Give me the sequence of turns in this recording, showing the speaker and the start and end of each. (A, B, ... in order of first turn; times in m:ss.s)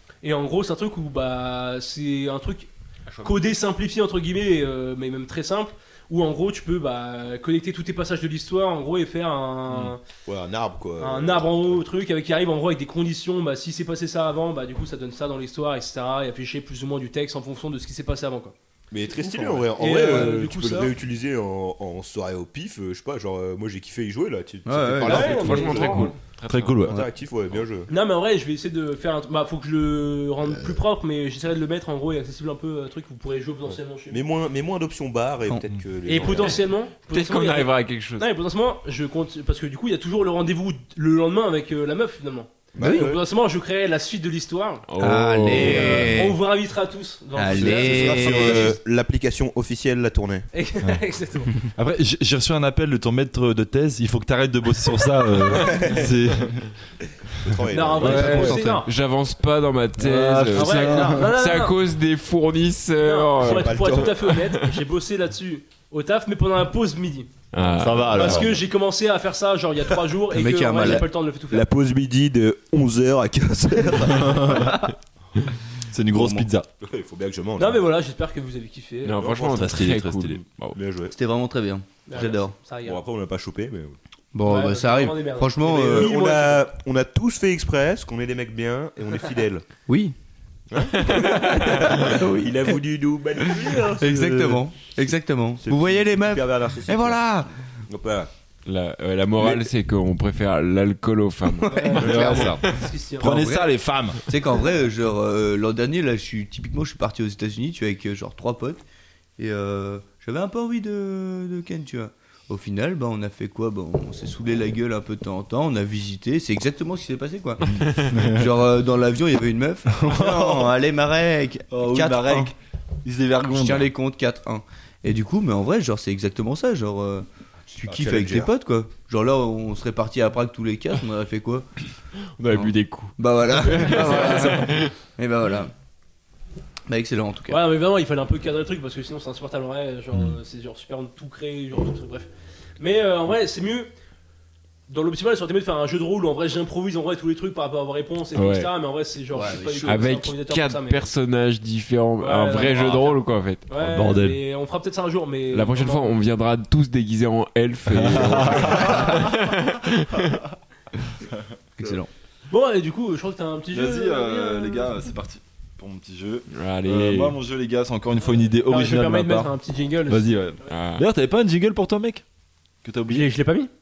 0:00.2-0:02.7 A
0:03.2-0:10.0 A
0:10.2-0:11.8 B
0:11.0-0:18.5 A
0:18.9-0:26.1 B
0:19.2-0:20.9 A
0:24.6-0:25.4 C
0:25.0-0:26.2 A
0:25.1-0:26.8 D
0:25.4-0:27.0 E
0:26.8-0:27.9 B
0:27.9-0:34.2 A
0:34.1-0:36.6 B
0:36.0-0:44.9 A
0:37.1-0:38.2 D
0:42.7-0:43.2 B
0:42.8-0:43.2 C
0:44.9-0:46.2 D
0:45.0-0:46.4 C
0:45.5-0:48.8 A
0:47.3-0:48.8 C
0:47.5-0:50.5 B
0:50.5-0:51.6 A
0:51.8-0:56.7 E
0:55.7-0:56.0 B
0:57.4-0:58.8 B
0:57.4-0:58.7 E
0:57.7-0:58.9 A
0:58.0-1:04.8 D
0:58.4-0:58.8 C
1:00.0-1:01.4 E
1:00.5-1:01.8 A
1:03.0-1:07.3 A
1:03.4-1:04.2 B
1:07.5-1:08.5 D
1:07.8-1:08.6 E
1:07.8-1:08.4 B
1:08.1-1:11.7 A
1:10.3-1:11.0 C
1:10.8-1:14.9 B
1:14.1-1:14.8 C
1:14.2-1:14.6 E
1:15.9-1:16.7 E
1:16.2-1:17.9 B
1:17.6-1:19.2 A
1:19.0-1:20.8 D
1:19.2-1:20.0 B
1:19.5-1:20.4 E
1:20.7-1:21.1 B
1:21.1-1:22.5 C
1:22.0-1:23.0 A
1:22.8-1:24.0 B
1:24.3-1:26.1 C
1:24.4-1:26.6 A
1:25.7-1:29.6 B
1:29.9-1:30.1 C
1:30.7-1:34.6 B
1:31.0-1:31.9 D
1:31.3-1:32.8 C
1:33.4-1:37.5 C
1:35.6-1:38.3 B
1:38.6-1:42.8 D
1:41.5-1:42.6 C
1:41.7-1:43.3 A
1:41.9-1:44.2 E
1:43.2-1:48.8 C
1:49.4-2:02.5 C
1:57.7-1:58.5 E
1:57.7-1:58.1 D
1:59.9-2:00.7 E
2:01.7-2:03.9 E
2:03.5-2:11.7 C
2:07.7-2:08.5 B
2:12.4-2:14.9 D
2:12.5-2:15.7 C
2:13.9-2:14.6 A
2:16.9-2:17.6 C
2:17.5-2:23.9 A
2:24.9-2:31.1 A
2:28.4-2:28.7 D
2:29.3-2:30.1 C
2:29.8-2:33.7 D
2:32.2-2:36.1 A
2:33.7-2:34.4 E
2:35.5-2:40.4 D
2:37.9-2:39.3 E
2:41.8-2:42.1 C
2:42.5-2:44.9 A
2:43.7-2:49.5 E
2:46.5-2:47.4 D
2:48.6-2:50.4 A
2:50.1-2:52.2 E
2:50.7-2:51.0 D
2:52.8-2:53.3 E
2:53.1-2:53.7 A